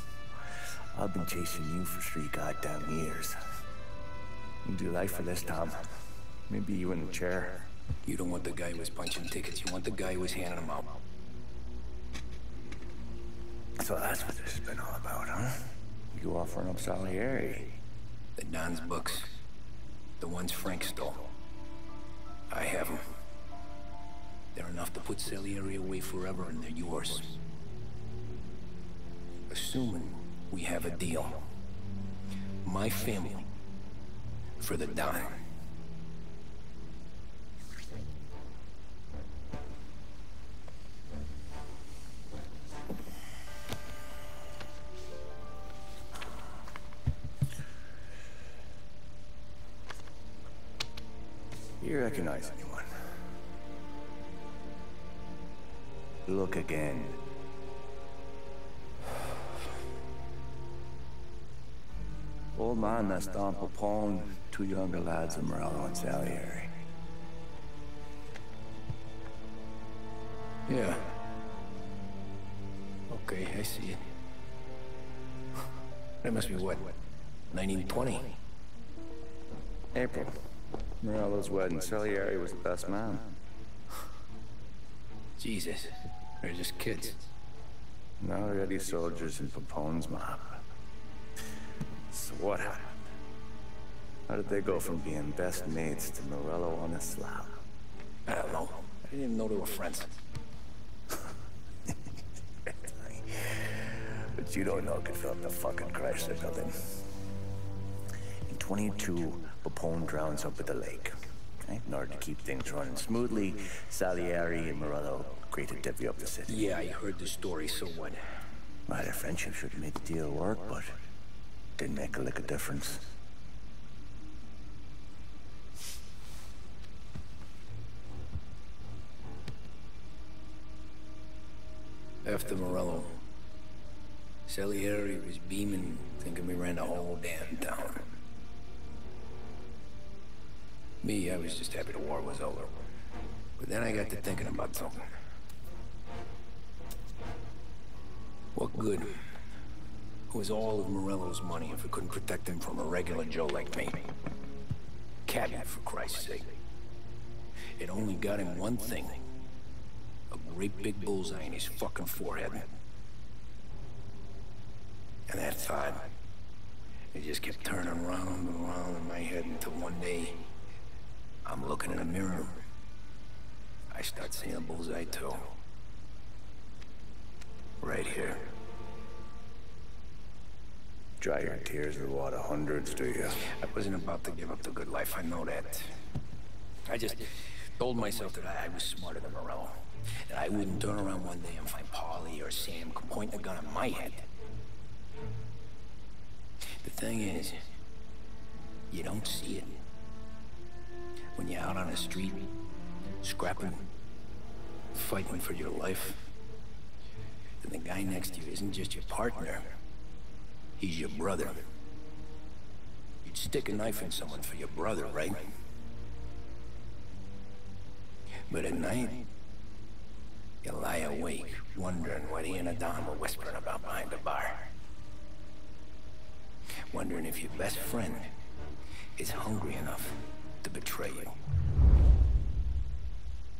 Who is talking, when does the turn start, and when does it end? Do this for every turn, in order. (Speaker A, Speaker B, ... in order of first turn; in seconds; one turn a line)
Speaker A: 0.9-3.4
Speaker A: 4.6-7.7
Speaker B: 8.0-11.0
Speaker A: 13.8-17.8
Speaker B: 18.4-19.3
Speaker B: 20.2-21.3
Speaker B: 22.5-23.1
Speaker B: 24.5-27.4
Speaker B: 29.5-31.5
Speaker B: 32.6-33.5
Speaker B: 34.6-35.4
Speaker A: 51.8-52.9
Speaker A: 56.3-57.2
Speaker A: 62.5-66.7
Speaker B: 70.7-71.2
Speaker B: 73.1-74.0
Speaker B: 76.2-76.9
Speaker B: 77.5-78.4
Speaker A: 79.9-80.4
Speaker A: 81.0-83.4
Speaker B: 85.4-87.3
Speaker A: 88.2-90.6
Speaker A: 92.1-93.0
Speaker A: 94.3-97.6
Speaker B: 98.3-100.2
Speaker A: 102.7-107.0
Speaker A: 108.5-116.7
Speaker B: 116.5-118.2
Speaker A: 118.9-121.0
Speaker A: 121.8-123.1
Speaker B: 132.2-133.2
Speaker B: 134.5-138.1
Speaker B: 141.0-142.8
Speaker B: 143.6-145.1
Speaker B: 148.6-149.2
Speaker B: 150.3-154.1
Speaker B: 155.3-156.6
Speaker B: 157.8-159.2
Speaker B: 160.3-162.7
Speaker B: 165.3-166.1
Speaker B: 167.1-170.5
Speaker B: 171.4-172.6
Speaker B: 173.9-175.6
Speaker B: 177.8-178.5
Speaker A: 181.2-183.4
Speaker B: 183.5-185.9
Speaker B: 186.9-187.2
Speaker B: 187.8-194.3
Speaker B: 196.8-197.6
Speaker B: 198.9-199.8
Speaker B: 201.3-202.5
Speaker B: 203.2-203.8
Speaker B: 204.9-206.3
Speaker B: 207.6-209.8
Speaker B: 210.8-211.7
Speaker B: 213.2-215.5
Speaker B: 218.5-219.3
Speaker B: 220.6-224.7
Speaker B: 226.9-228.3
Speaker B: 229.2-231.4